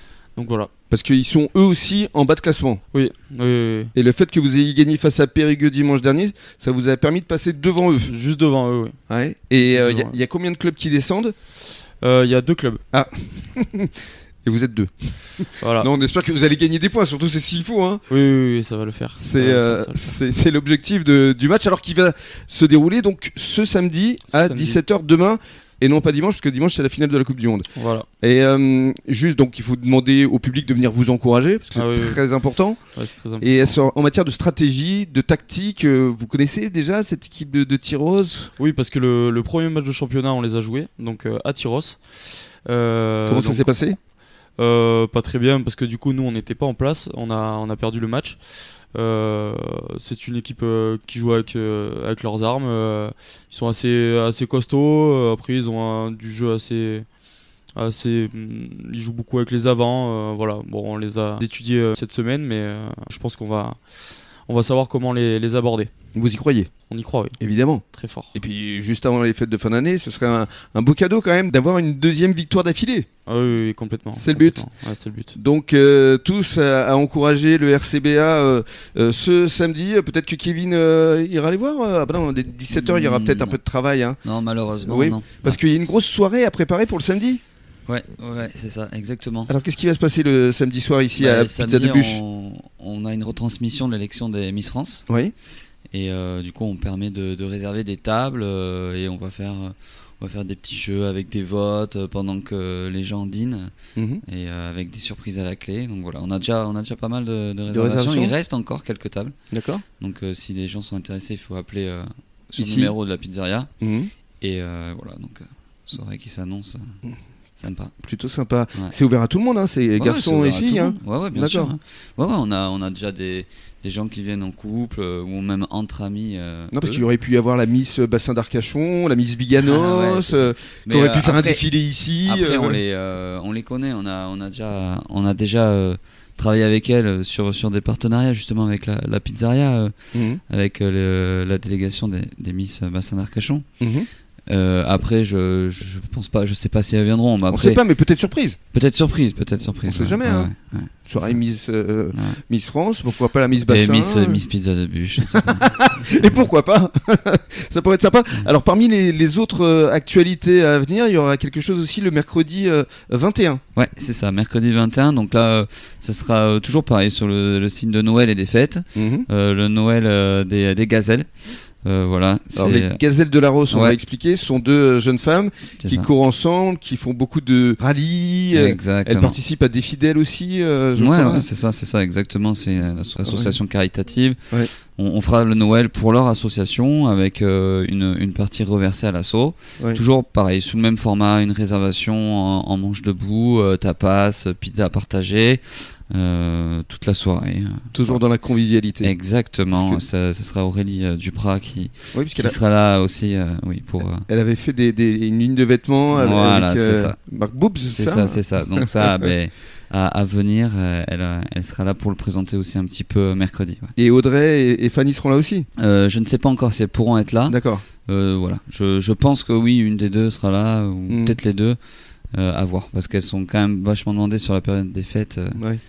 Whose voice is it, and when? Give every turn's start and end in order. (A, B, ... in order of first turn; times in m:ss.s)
0:00.4-0:00.7 A
0:00.9-0:02.8 B
0:02.9-0:03.9 A
0:03.9-0:08.1 B
0:08.0-0:09.0 A
0:09.1-0:11.3 B
0:09.6-0:10.2 A
0:12.0-0:12.8 A
0:12.9-0:18.0 B
0:15.6-0:15.9 A
0:18.1-0:20.1 A
0:19.2-0:32.8 B
0:24.3-0:24.8 A
0:27.7-0:28.1 A
0:31.7-0:32.2 A
0:32.9-0:33.8 A
0:33.4-0:38.5 B
0:38.6-0:43.7 A
0:43.3-0:44.0 B
0:44.6-0:48.4 A
0:48.9-0:57.0 A
0:57.8-1:03.8 A
1:04.5-1:05.9 A
1:06.1-1:06.7 B
1:06.9-1:07.4 A
1:07.4-1:13.1 B
1:07.9-1:08.3 A
1:13.2-1:15.3 A
1:14.1-1:14.6 B
1:15.3-1:24.2 B
1:22.7-1:23.6 C
1:24.2-1:25.6 C
1:24.8-1:27.4 B
1:27.9-1:29.5 C
1:29.5-1:32.2 B
1:31.2-1:35.0 C
1:35.1-1:35.3 B
1:35.9-1:43.7 C
1:44.0-1:44.2 B
1:44.2-1:49.3 C
1:47.7-1:48.3 B
1:49.5-1:49.8 B
1:50.0-1:53.7 C
1:52.6-1:52.9 B
1:53.8-1:54.1 B
1:54.4-1:56.8 C
1:57.6-1:57.9 C
1:58.0-2:01.7 B
2:00.0-2:07.0 C
2:06.7-2:12.8 B
2:09.6-2:11.7 C
2:12.2-2:19.9 C
2:20.1-2:20.4 B
2:20.5-2:23.6 C
2:23.8-2:24.1 B
2:24.5-2:27.8 C
2:27.5-2:28.6 B
2:28.7-2:31.4 C
2:29.8-2:30.5 B
2:31.0-2:34.4 B
2:32.1-2:32.4 C
2:33.6-2:35.6 C
2:35.3-2:43.6 B
2:43.8-2:53.0 C
2:48.9-2:49.2 B
2:52.6-3:01.4 B
2:53.7-2:54.0 C
2:55.8-2:56.1 C
2:58.5-2:59.4 C
3:01.0-3:18.2 C
3:03.2-3:03.6 B
3:17.9-3:19.1 B
3:19.0-3:24.3 C
3:19.7-3:20.0 B
3:22.1-3:22.5 B
3:24.3-3:29.2 B
3:26.1-3:27.2 C
3:27.9-3:33.9 C
3:34.0-3:35.6 B
3:35.8-3:41.8 C
3:37.5-3:37.8 B
3:41.1-3:41.4 B
3:42.3-3:45.6 C